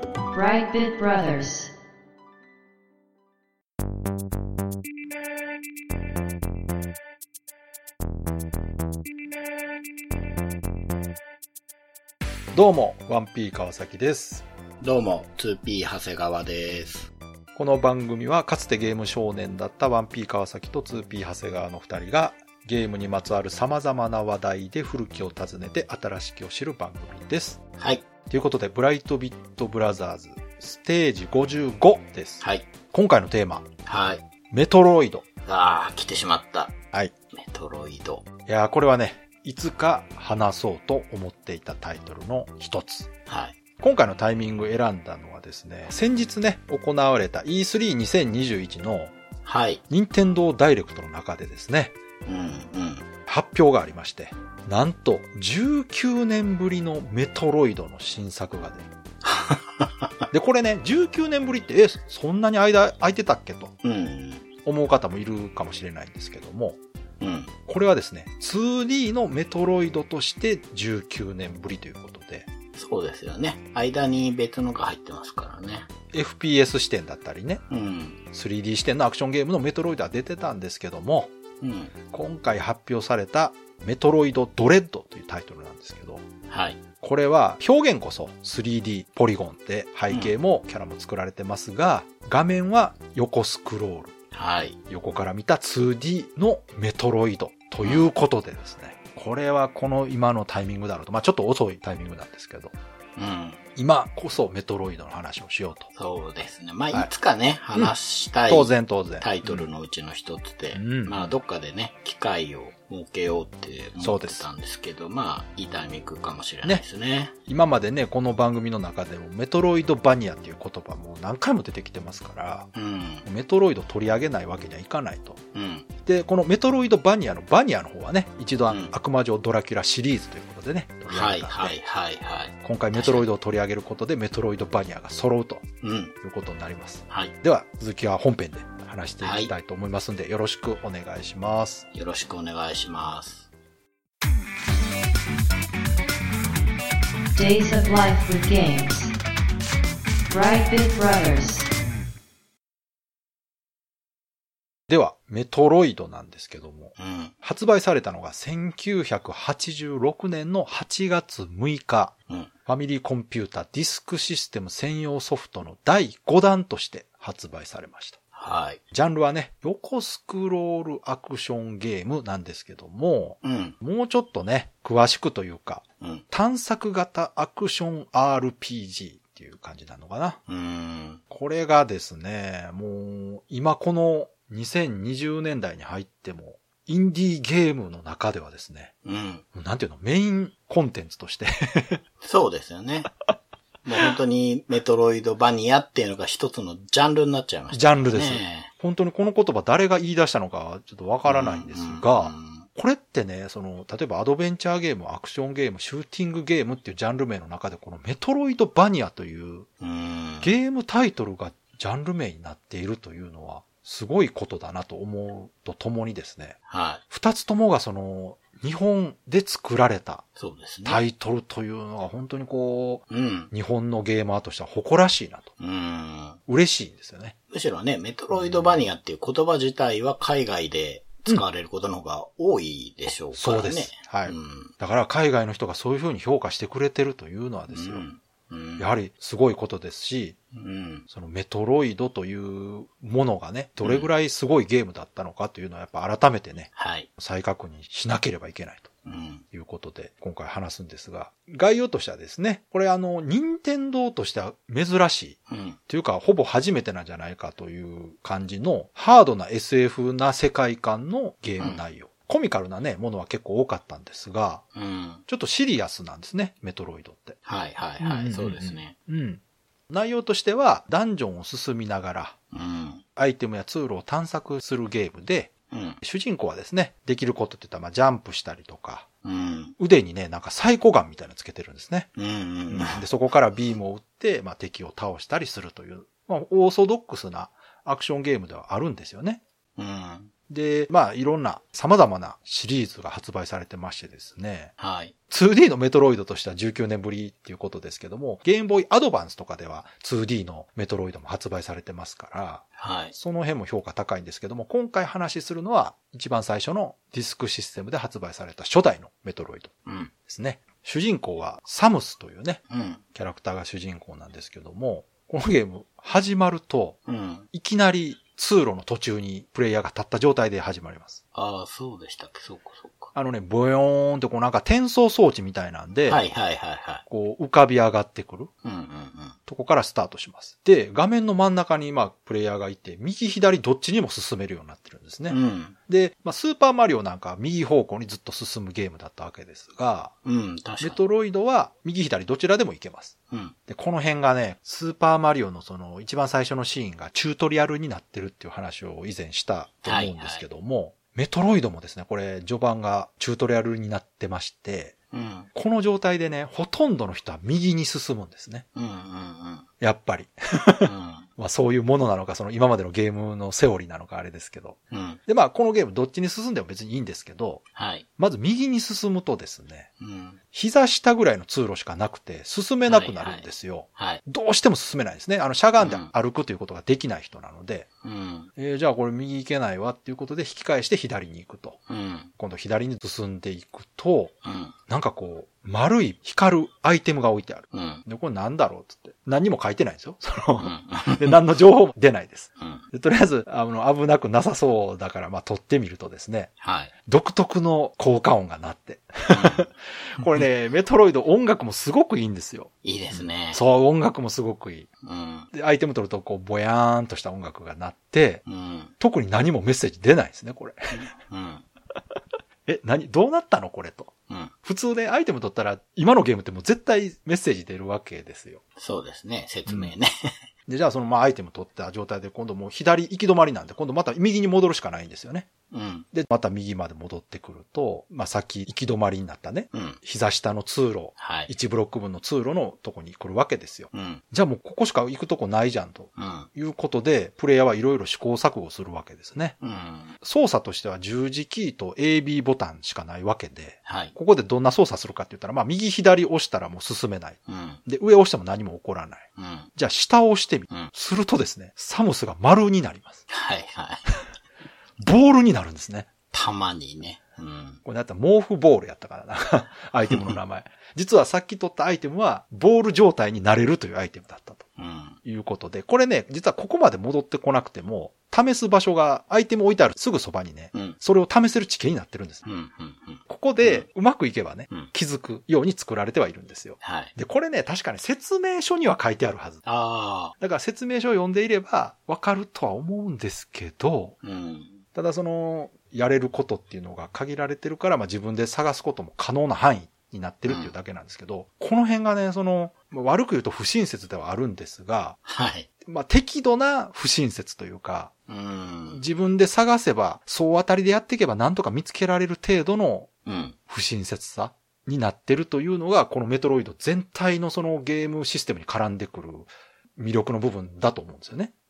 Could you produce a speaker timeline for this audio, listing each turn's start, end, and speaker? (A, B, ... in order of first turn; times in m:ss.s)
0:00.3-0:01.7 A
0:12.5-0:14.5 B
0:14.8-0:17.1 C
0:17.6-0:27.6 B
0:27.8-0:28.0 C
0:28.3-0:33.7 B
0:32.4-0:32.7 C
0:33.9-0:34.2 C
0:34.5-0:35.3 B
0:35.4-0:36.8 C
0:37.3-0:38.3 C
0:38.5-0:43.1 B
0:43.3-0:43.6 C
0:43.8-0:49.1 B
0:49.4-0:49.8 C
0:49.9-0:52.0 B
0:52.3-0:53.1 C
0:53.3-0:58.9 B
0:59.2-1:00.2 C
1:00.3-1:03.7 B
1:03.8-1:04.5 C
1:04.6-1:06.8 B
1:07.2-1:07.5 C
1:07.7-1:12.5 B
1:12.8-1:15.9 C
1:16.1-1:17.6 B
1:17.7-1:18.2 C
1:18.3-1:21.3 B
1:21.6-1:21.9 C
1:22.1-1:26.2 B
1:26.5-1:26.8 C
1:27.0-1:34.1 B
1:34.3-1:34.8 C
1:34.9-1:42.7 B
1:43.2-1:43.6 C
1:43.8-1:45.9 B
1:46.0-1:57.4 C
1:48.5-1:49.7 B
1:50.7-1:51.3 B
1:54.0-1:54.5 B
1:57.5-2:02.7 B
2:02.7-2:03.3 C
2:03.2-2:05.4 B
2:05.5-2:05.9 C
2:06.0-2:11.8 B
2:11.1-2:13.3 C
2:12.6-2:15.7 B
2:15.8-2:16.1 C
2:16.2-2:21.9 B
2:19.2-2:19.5 C
2:21.9-2:23.5 C
2:27.4-2:29.2 A
2:30.3-2:31.7 A
2:34.9-2:42.1 B
2:37.0-2:37.4 C
2:42.7-2:48.2 B
2:48.3-2:48.8 C
2:48.9-3:00.4 B
2:53.4-2:53.8 C
3:00.5-3:01.2 C
3:01.3-3:08.9 B
3:09.0-3:09.4 C
3:09.6-3:12.0 B
3:12.2-3:13.1 C
3:13.8-3:18.7 C
3:17.7-3:29.7 B
3:21.2-3:22.7 C
3:29.8-3:30.6 C
3:30.4-3:36.6 B
3:36.7-3:37.0 C
3:37.1-3:40.3 B
3:40.4-3:41.0 C
3:40.8-3:45.5 B
3:43.1-3:43.5 C
3:45.6-3:46.4 C
3:46.5-3:47.4 B
3:47.5-3:54.7 C
3:48.3-3:48.8 B
3:53.4-3:58.1 B
3:57.7-3:58.9 C
3:58.8-4:00.4 B
4:00.5-4:01.1 C
4:01.1-4:08.9 B
4:03.8-4:04.1 C
4:06.8-4:07.1 C
4:09.0-4:09.4 C
4:09.5-4:24.6 B
4:15.5-4:15.8 C
4:24.8-4:25.2 C
4:25.3-4:27.4 B
4:27.5-4:28.9 C
4:28.0-4:32.4 B
4:32.5-4:33.0 C
4:33.2-4:39.1 B
4:35.7-4:36.0 C
4:39.2-4:39.8 C
4:39.8-4:42.1 B
4:42.2-4:43.0 C
4:42.7-4:49.4 B
4:49.8-4:50.3 C
4:50.5-4:54.7 B
4:54.8-4:55.1 C
4:55.3-5:09.7 B
5:02.8-5:03.2 C
5:09.9-5:10.1 C
5:10.3-5:12.6 B
5:12.7-5:13.0 C
5:13.1-5:17.0 B
5:17.1-5:17.5 C
5:17.5-5:21.2 B
5:21.3-5:23.1 C
5:23.2-5:26.2 B
5:26.1-5:27.0 C
5:27.1-5:28.5 B
5:28.6-5:29.4 C
5:29.5-5:40.1 B
5:35.3-5:35.8 C
5:40.2-5:41.0 C
5:40.8-5:43.2 B
5:43.3-5:43.6 C
5:43.7-5:54.9 B
5:49.8-5:50.4 C
5:55.1-5:55.5 C
5:55.5-5:58.6 B
5:58.8-5:59.7 C
5:59.8-6:07.6 B
6:00.8-6:01.3 C
6:04.9-6:05.2 C
6:07.8-6:08.1 C
6:08.2-6:09.9 B
6:10.0-6:10.4 C
6:10.5-6:17.9 B
6:12.9-6:14.2 C
6:15.8-6:16.1 C
6:18.0-6:18.5 C
6:18.6-6:21.8 B
6:21.9-6:22.3 C
6:22.4-6:24.3 B
6:24.4-6:24.8 C
6:24.9-6:36.5 B
6:27.7-6:28.0 C
6:30.6-6:31.4 C
6:32.6-6:32.9 C
6:36.6-6:36.9 C
6:37.1-6:44.9 B
6:39.3-6:39.7 C
6:42.8-6:43.6 C
6:45.0-6:45.5 C
6:45.5-6:48.4 B
6:48.5-6:48.9 C
6:49.0-6:51.1 B
6:50.9-6:51.6 C
6:52.7-6:54.1 B
6:54.3-6:54.5 C
6:54.6-6:58.6 B
6:58.8-7:00.3 C
6:59.7-7:00.0 B
7:00.7-7:05.5 B
7:05.7-7:06.1 C
7:06.1-7:19.6 B
7:09.7-7:10.0 C
7:11.2-7:11.5 C
7:13.9-7:14.2 C
7:16.2-7:16.5 C
7:19.6-7:20.2 C
7:20.2-7:33.2 B
7:23.9-7:24.1 C
7:27.5-7:27.8 C
7:29.4-7:29.7 C
7:33.3-7:34.1 C
7:35.0-7:36.1 B
7:36.3-7:37.8 C
7:37.8-7:44.7 B
7:44.8-7:45.2 C
7:45.2-7:52.4 B
7:50.7-7:51.0 C
7:52.4-7:53.9 C
7:53.3-7:59.6 B
7:56.8-7:57.1 C
7:59.6-8:00.4 C
8:00.4-8:04.2 B
8:04.2-8:04.8 C
8:05.0-8:15.2 B
8:10.5-8:10.7 C
8:15.3-8:15.7 C
8:15.8-8:18.1 B
8:18.3-8:19.0 C
8:19.0-8:23.1 B
8:23.3-8:23.6 C
8:23.7-8:31.5 B